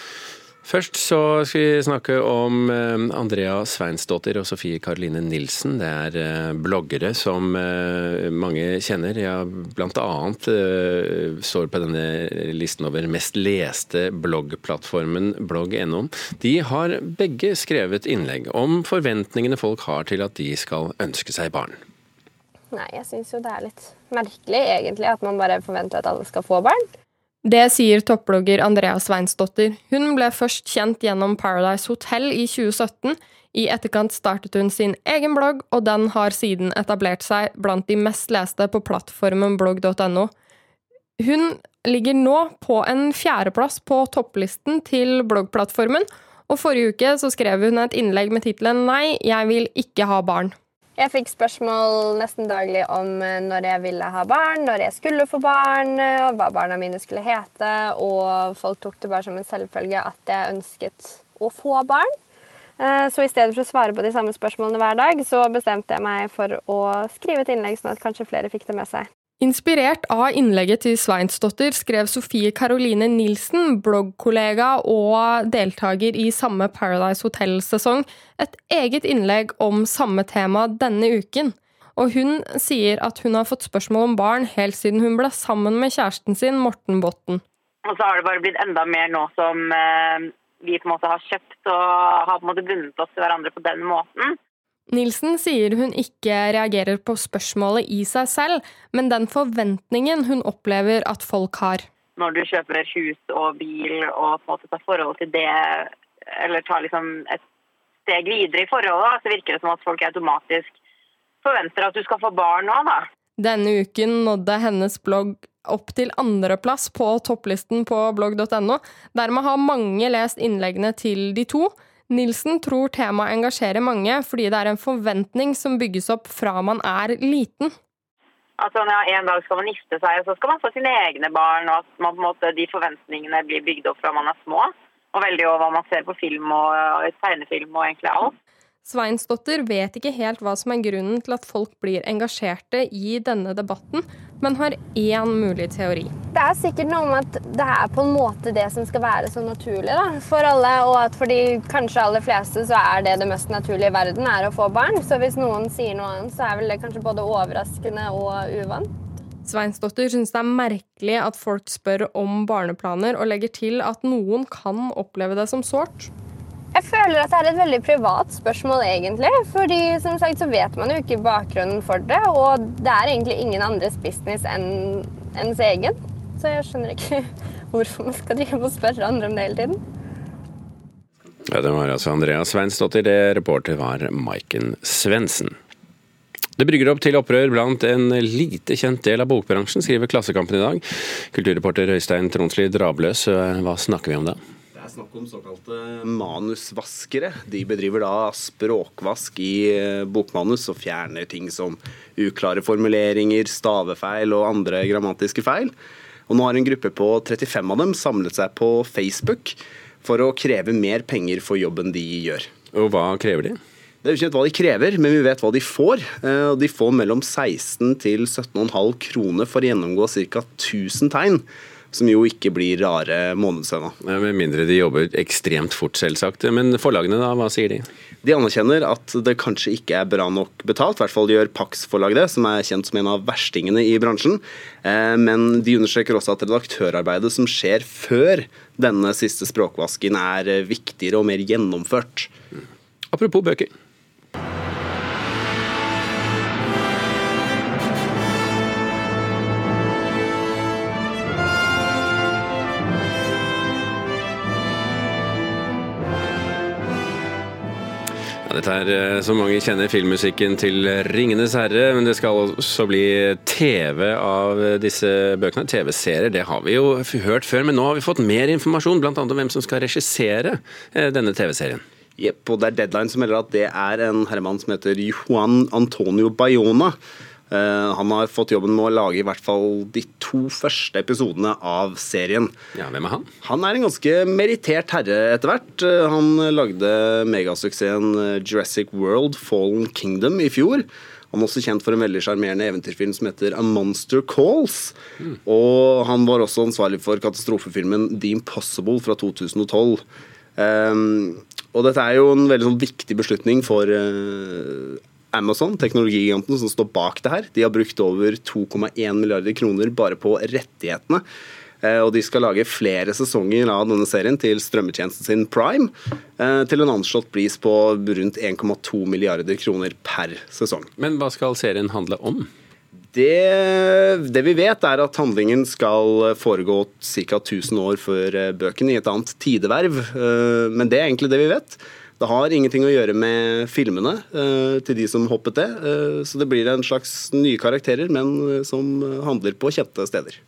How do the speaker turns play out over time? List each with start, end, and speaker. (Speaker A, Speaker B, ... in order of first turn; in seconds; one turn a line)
Speaker A: 0.7-21.8
Speaker B: 22.7-26.8
Speaker C: 27.4-40.3
Speaker C: 41.2-50.5
Speaker B: 51.0-62.1
Speaker B: 62.8-69.1
Speaker C: 69.4-87.4
Speaker D: 87.9-94.4
Speaker C: 94.9-101.9
Speaker D: 102.2-107.4
Speaker D: 108.0-110.8
Speaker D: 111.4-113.1
Speaker C: 113.4-127.7
Speaker D: 128.6-138.3
Speaker C: 138.8-146.1
Speaker B: 146.3-158.9
Speaker C: 159.4-166.1
Speaker B: 166.7-179.8
Speaker A: 181.5-185.6
Speaker A: 186.6-194.4
Speaker E: 194.7-205.7
Speaker E: 206.3-212.5
Speaker A: 212.7-213.6
Speaker E: 214.0-223.9
Speaker A: 224.0-227.9
Speaker E: 228.2-242.3
Speaker A: 243.1-243.7
Speaker A: 258.5-271.8
Speaker E: 272.2-277.0
Speaker E: 277.5-282.5
Speaker A: 282.7-283.3
Speaker E: 283.4-300.0
Speaker E: 300.6-311.2
Speaker E: 311.8-320.9
Speaker A: 321.0-322.5
Speaker E: 323.1-340.4